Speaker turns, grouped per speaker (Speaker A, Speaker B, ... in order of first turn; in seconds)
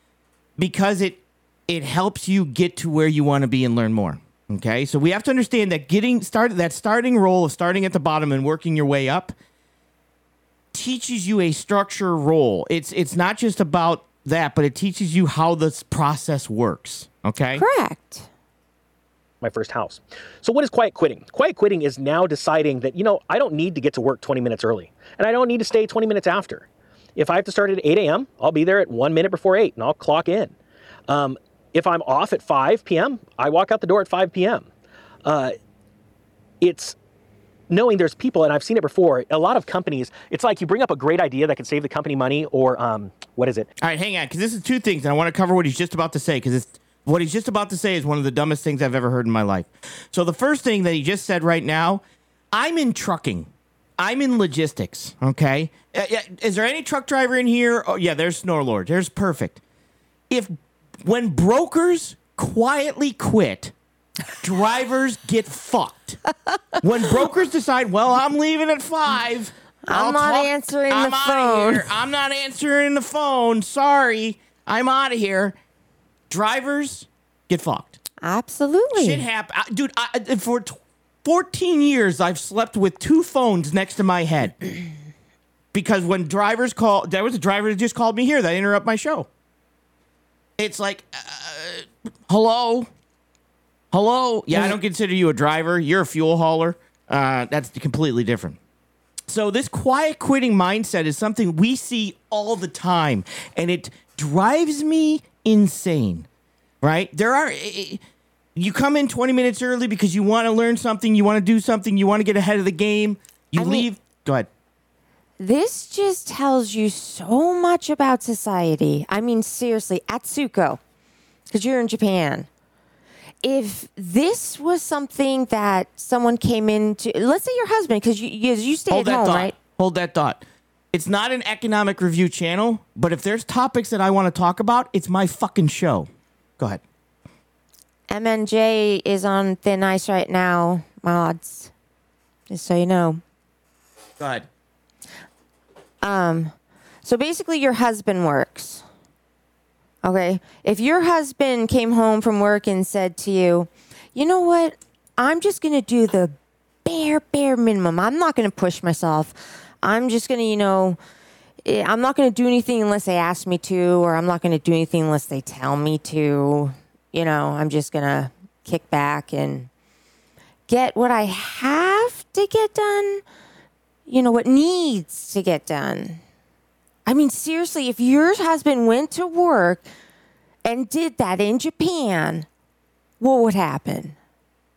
Speaker A: 0.6-9.3, 10.7-17.6, 43.8-52.0, 52.5-59.6, 60.3-63.7, 64.4-66.2, 66.8-75.5, 76.3-78.0, 78.9-84.5, 85.7-89.3, 90.6-92.9, 93.9-98.6, 99.3-106.3, 106.8-108.0, 108.5-114.5, 128.9-136.8, 144.2-144.5
Speaker B: 17.6-18.3, 69.8-71.9, 78.2-79.2, 113.5-113.9, 115.4-120.8, 121.5-122.5, 123.4-129.5, 138.1-141.7, 142.5-143.2, 146.0-146.5, 147.0-148.8, 150.0-161.0, 161.6-169.7, 170.7-173.2, 174.1-176.2, 177.1-179.8, 180.6-182.5, 183.2-184.2
Speaker C: 19.4-30.5, 31.1-34.7, 35.2-35.5, 36.6-37.0, 37.7-43.7